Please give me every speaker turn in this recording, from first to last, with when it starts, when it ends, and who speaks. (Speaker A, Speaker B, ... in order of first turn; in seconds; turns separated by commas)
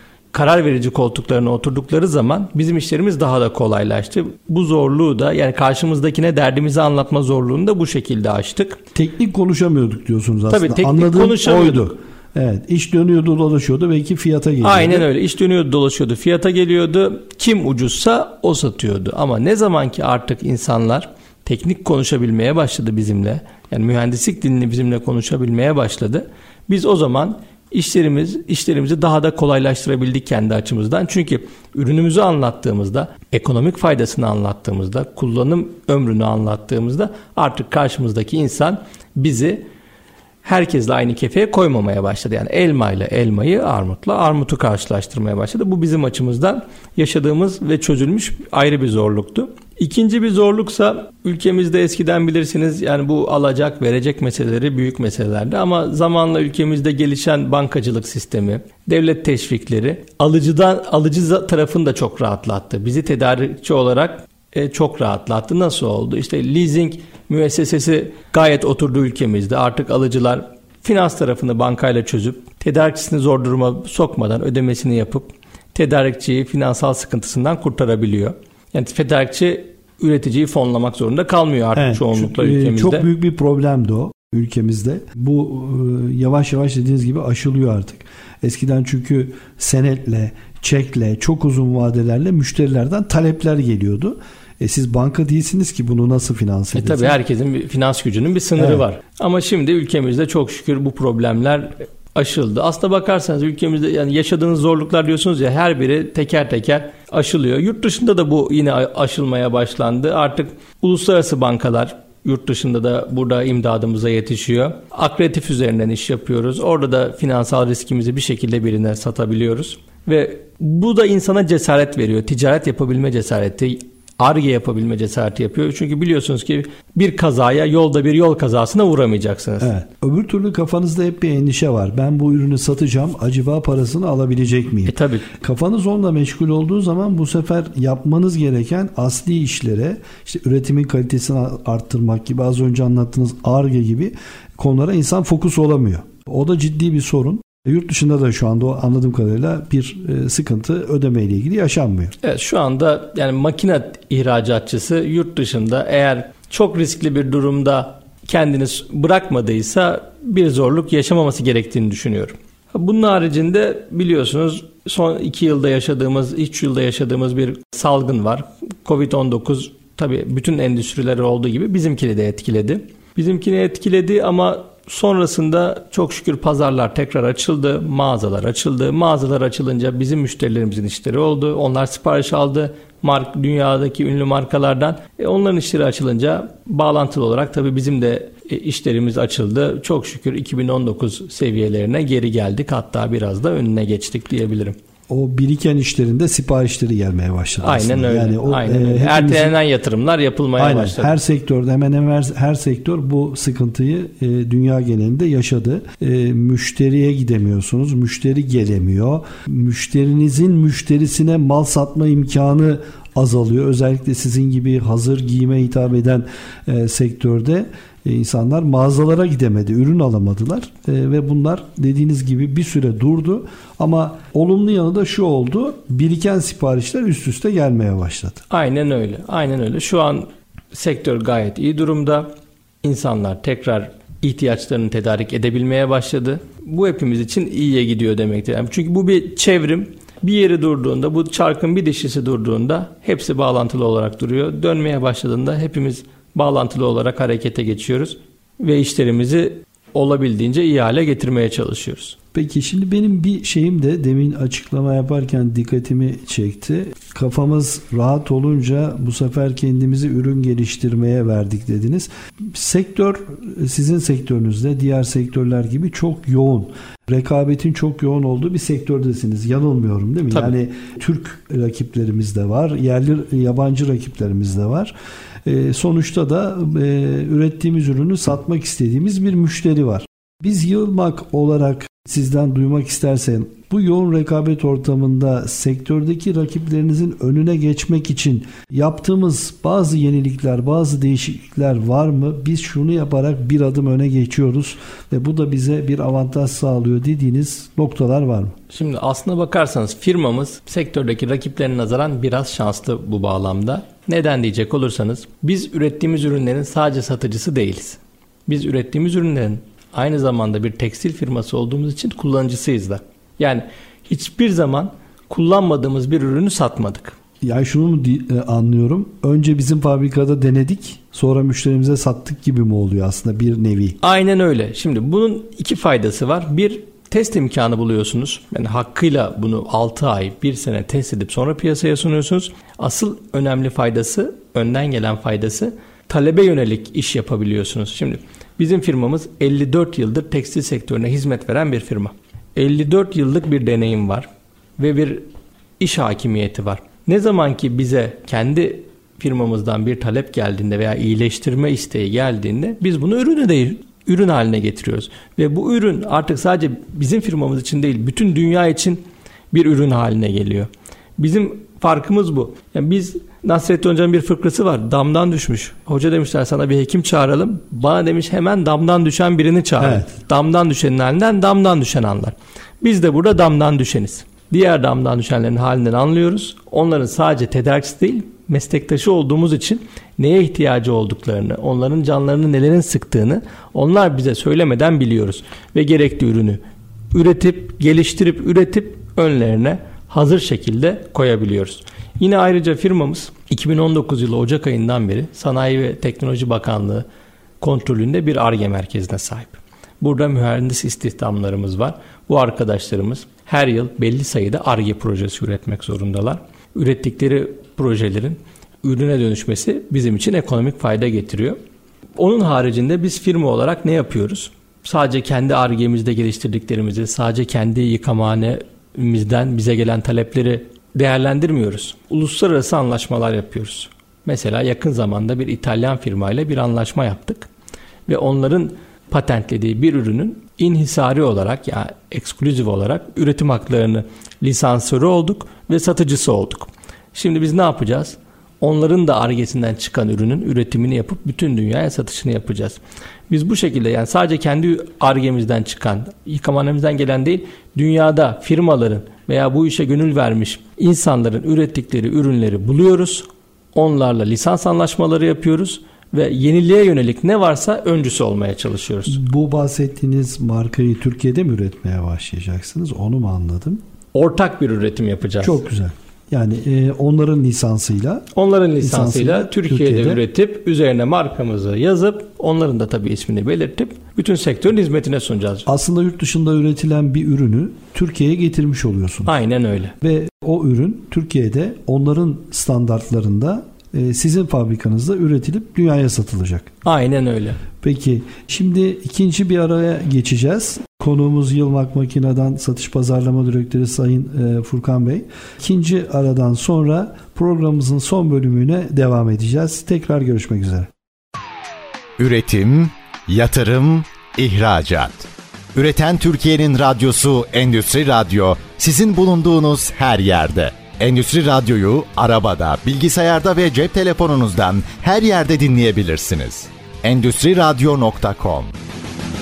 Speaker A: 0.3-8.8, Speaker B: 8.9-15.1, Speaker A: 10.5-11.9, Speaker A: 14.6-39.7, Speaker A: 40.4-83.0, Speaker B: 81.8-97.2, Speaker A: 96.8-129.7, Speaker B: 98.6-98.8, Speaker B: 129.6-152.2, Speaker A: 134.9-135.3, Speaker A: 152.2-194.8, Speaker B: 195.1-199.6, Speaker A: 197.6-201.2, Speaker B: 200.6-228.4, Speaker A: 228.5-232.3, Speaker A: 232.8-252.2, Speaker B: 252.3-274.9, Speaker B: 275.4-298.6, Speaker A: 298.7-317.1, Speaker B: 317.4-324.0, Speaker A: 324.0-345.3, Speaker A: 345.8-386.6, Speaker B: 369.8-370.1, Speaker A: 387.1-397.1, Speaker A: 397.6-411.6, Speaker A: 412.2-427.5, Speaker A: 428.1-459.2, Speaker B: 459.1-463.8, Speaker A: 464.1-465.6, Speaker B: 465.4-468.3, Speaker A: 468.3-475.7, Speaker B: 468.8-470.2, Speaker B: 475.7-479.3, Speaker A: 479.3-479.9, Speaker B: 480.0-486.7, Speaker A: 486.8-487.6, Speaker B: 487.8-500.9, Speaker C: 502.2-518.7